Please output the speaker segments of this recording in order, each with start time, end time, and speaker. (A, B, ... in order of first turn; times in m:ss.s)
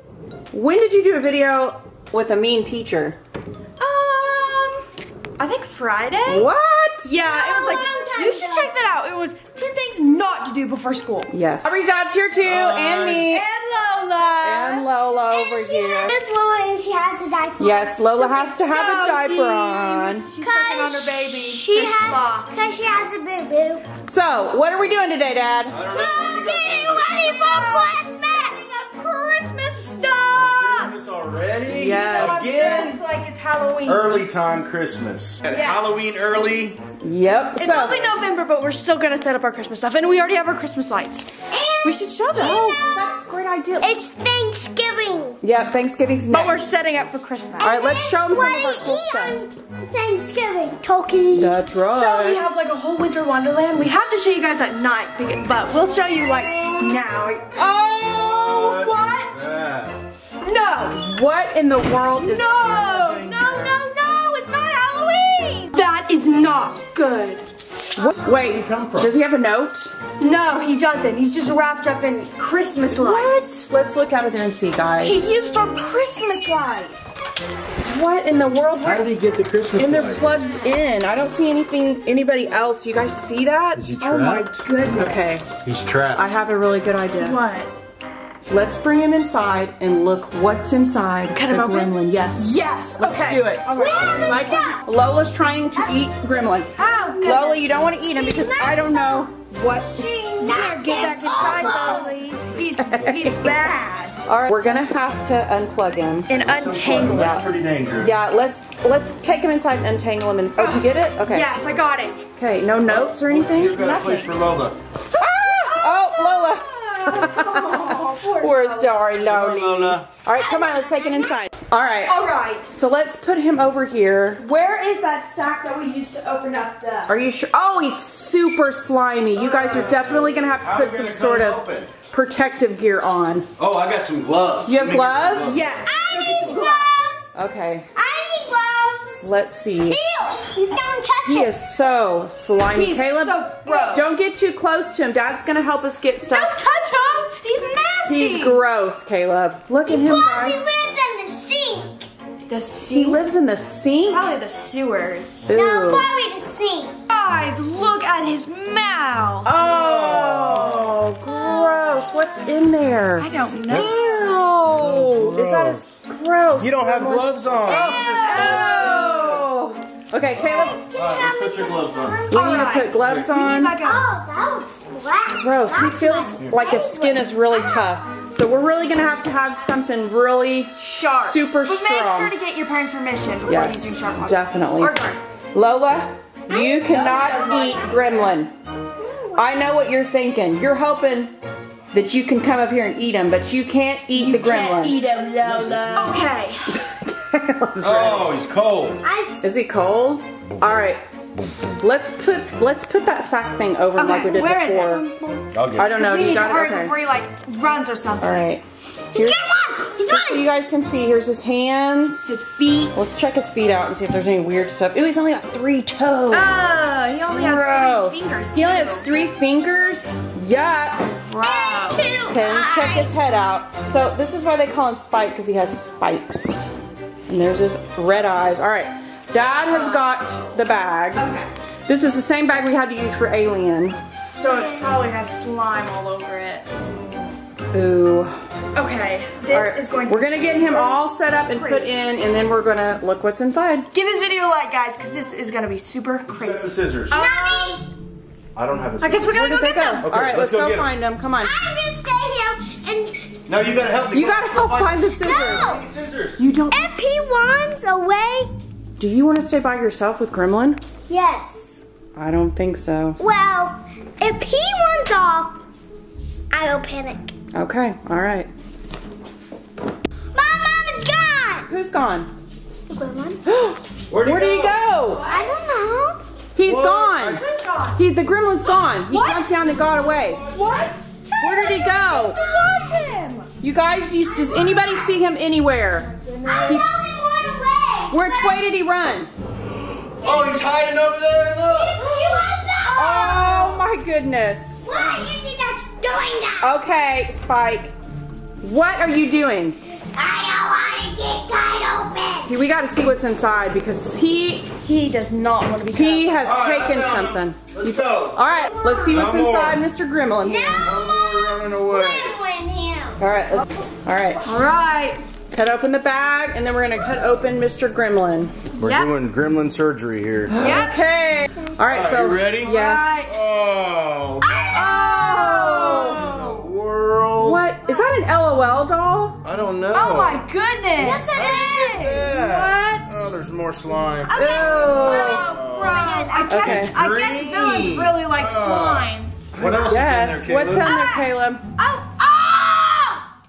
0:00.5-0:03.2 A
0:03.8-0:04.8 B
0:05.4-0:06.5 B
0:06.3-0:07.1 A
0:07.0-0:11.3 B
0:07.2-0:08.8 C
0:11.3-0:13.4 A
0:12.4-0:13.3 D
0:13.3-0:14.8 B
0:14.4-0:16.2 A
0:15.3-0:18.2 C
0:17.6-0:20.3 A
0:18.2-0:22.5 B
0:20.4-0:23.9 C
0:24.1-0:25.8 A
0:25.7-0:27.6 D
0:25.9-0:28.6 C
0:27.4-0:31.0 B
0:30.4-0:33.0 D
0:31.7-0:32.7 A
0:32.0-0:34.2 B
0:33.9-0:36.8 D
0:35.5-0:36.3 B
0:37.0-0:38.0 A
0:37.6-0:42.7 B
0:41.5-0:43.2 C
0:42.3-0:44.0 A
0:43.8-0:45.4 C
0:45.4-0:46.7 A
0:46.3-0:47.8 B
0:47.6-0:49.4 A
0:47.6-0:51.6 C
0:51.3-0:52.4 A
0:51.8-0:57.6 B
0:57.6-0:58.4 A
0:58.0-1:00.0 D
0:58.2-0:59.5 B
1:00.4-1:01.0 B
1:01.0-1:03.7 A
1:02.2-1:07.4 B
1:08.0-1:09.9 A
1:08.4-1:09.1 D
1:10.2-1:13.5 B
1:12.9-1:15.2 A
1:15.0-1:17.1 B
1:17.9-1:19.2 A
1:18.8-1:20.3 D
1:19.8-1:24.0 A
1:23.8-1:24.7 D
1:24.0-1:25.3 B
1:24.9-1:25.5 A
1:25.6-1:26.2 D
1:26.1-1:27.4 A
1:27.2-1:27.7 B
1:28.5-1:39.9 A
1:31.3-1:34.8 B
1:33.7-1:34.9 C
1:36.8-1:37.7 B
1:38.1-1:42.2 C
1:40.4-1:44.2 B
1:41.4-1:42.0 A
1:42.8-1:43.7 A
1:44.3-1:46.3 A
1:46.3-1:47.4 B
1:46.4-1:48.1 D
1:47.0-1:47.5 A
1:48.0-1:51.5 A
1:50.6-1:52.3 B
1:52.4-1:53.8 A
1:52.8-1:54.8 D
1:53.7-1:54.4 B
1:55.2-1:59.0 B
1:55.2-2:04.4 A
1:59.2-2:00.1 D
2:00.4-2:01.3 C
2:02.0-2:02.8 B
2:04.4-2:07.2 B
2:07.1-2:13.5 A
2:09.4-2:10.0 B
2:09.8-2:11.9 D
2:13.6-2:15.7 D
2:14.6-2:15.6 A
2:15.4-2:17.1 B
2:15.9-2:17.3 C
2:17.4-2:17.9 A
2:18.0-2:19.3 C
2:19.2-2:20.0 A
2:19.8-2:21.7 C
2:21.2-2:26.6 A
2:22.7-2:24.1 B
2:23.7-2:24.0 C
2:26.2-2:28.6 B
2:28.1-2:30.6 A
2:29.9-2:32.1 C
2:32.5-2:33.2 B
2:32.9-2:34.3 A
2:34.1-2:35.6 B
2:35.5-2:36.1 A
2:35.5-2:37.0 C
2:37.1-2:39.6 B
2:39.4-2:50.8 A
2:39.6-2:41.0 D
2:43.2-2:44.3 B
2:43.7-2:45.9 D
2:46.6-2:49.5 D
2:47.6-2:49.4 B
2:50.3-2:52.2 D
2:50.9-2:52.8 C
2:52.3-2:53.8 A
2:52.3-2:54.0 B
2:53.0-2:53.3 D
2:53.8-2:57.8 C
2:55.4-3:02.3 A
2:56.4-2:56.7 D
3:00.5-3:05.2 B
3:03.5-3:05.0 A
3:05.5-3:08.5 A
3:06.5-3:08.4 B
3:09.4-3:11.3 A
3:11.9-3:15.0 A
3:14.2-3:16.8 B
3:15.4-3:16.0 D
3:16.8-3:18.4 A
3:17.8-3:19.0 D
3:19.0-3:19.5 C
3:19.4-3:21.0 A
3:21.7-3:25.0 A
3:23.9-3:28.6 B
3:25.5-3:25.9 D
3:25.8-3:26.9 A
3:28.2-3:28.6 A
3:29.1-3:30.5 C
3:29.1-3:32.4 A
3:32.2-3:33.1 B
3:33.0-3:36.6 A
3:36.3-3:39.1 B
3:37.3-3:41.1 A
3:41.0-3:42.2 B
3:41.4-3:43.1 C
3:42.2-3:46.7 A
3:47.3-3:51.3 A
3:49.6-3:50.2 B
3:51.2-3:51.5 B
3:51.9-3:54.0 A
3:54.4-3:56.7 B
3:54.5-3:54.8 C
3:57.7-3:58.4 A
3:58.7-4:01.9 B
3:59.5-4:03.9 A
4:03.9-4:07.8 B
4:06.3-4:07.2 D
4:07.1-4:07.8 C
4:08.6-4:09.4 D
4:09.0-4:10.1 B
4:09.3-4:11.6 A
4:10.0-4:10.9 D
4:11.4-4:13.4 C
4:13.5-4:16.5 D
4:14.1-4:15.7 A
4:15.2-4:15.8 C
4:16.4-4:16.8 A
4:16.7-4:18.5 C
4:19.0-4:20.8 A
4:21.1-4:21.8 C
4:22.2-4:23.2 A
4:23.2-4:25.6 C
4:26.5-4:27.3 C
4:27.5-4:28.5 A
4:30.3-4:31.7 C
4:31.7-4:32.3 A
4:32.9-4:33.4 C
4:33.5-4:35.3 A
4:34.1-4:34.8 D
4:35.1-4:35.6 B
4:35.3-4:36.2 C
4:36.6-4:37.4 A
4:36.7-4:37.4 D
4:37.3-4:38.0 B
4:38.0-4:40.5 A
4:39.0-4:39.8 B
4:40.1-4:40.9 D
4:40.4-4:43.5 B
4:41.4-4:42.4 A
4:43.6-4:46.1 A
4:44.3-4:45.2 C
4:46.2-4:47.0 B
4:46.5-4:48.6 C
4:46.7-4:47.2 A
4:48.1-4:49.3 A
4:50.0-4:52.0 D
4:50.2-4:50.6 C
4:51.7-4:53.8 C
4:52.9-4:55.1 A
4:54.8-4:56.8 C
4:56.6-4:57.9 A
4:58.6-4:59.8 A
5:00.1-5:02.5 C
5:02.4-5:04.7 A
5:04.8-5:06.4 B
5:05.9-5:10.9 A
5:06.4-5:08.4 D
5:08.8-5:09.3 C
5:09.1-5:09.8 D
5:10.4-5:13.2 C
5:10.8-5:12.4 D
5:13.2-5:14.5 A
5:14.4-5:15.2 B
5:15.5-5:18.6 A
5:18.8-5:19.1 B
5:18.8-5:20.8 D
5:20.5-5:23.3 A
5:20.6-5:21.0 B
5:21.9-5:24.8 D
5:22.6-5:23.3 B
5:24.4-5:26.5 B
5:24.7-5:26.3 A
5:26.1-5:27.7 D
5:27.4-5:29.4 A
5:29.4-5:30.4 D
5:29.9-5:31.7 B
5:31.0-5:32.3 C
5:31.3-5:34.4 D
5:32.3-5:33.3 A
5:34.3-5:36.6 C
5:34.4-5:35.5 A
5:34.4-5:40.0 B
5:35.4-5:36.0 D
5:36.5-5:37.0 A
5:36.6-5:41.0 D
5:39.7-5:41.7 A
5:40.7-5:43.2 C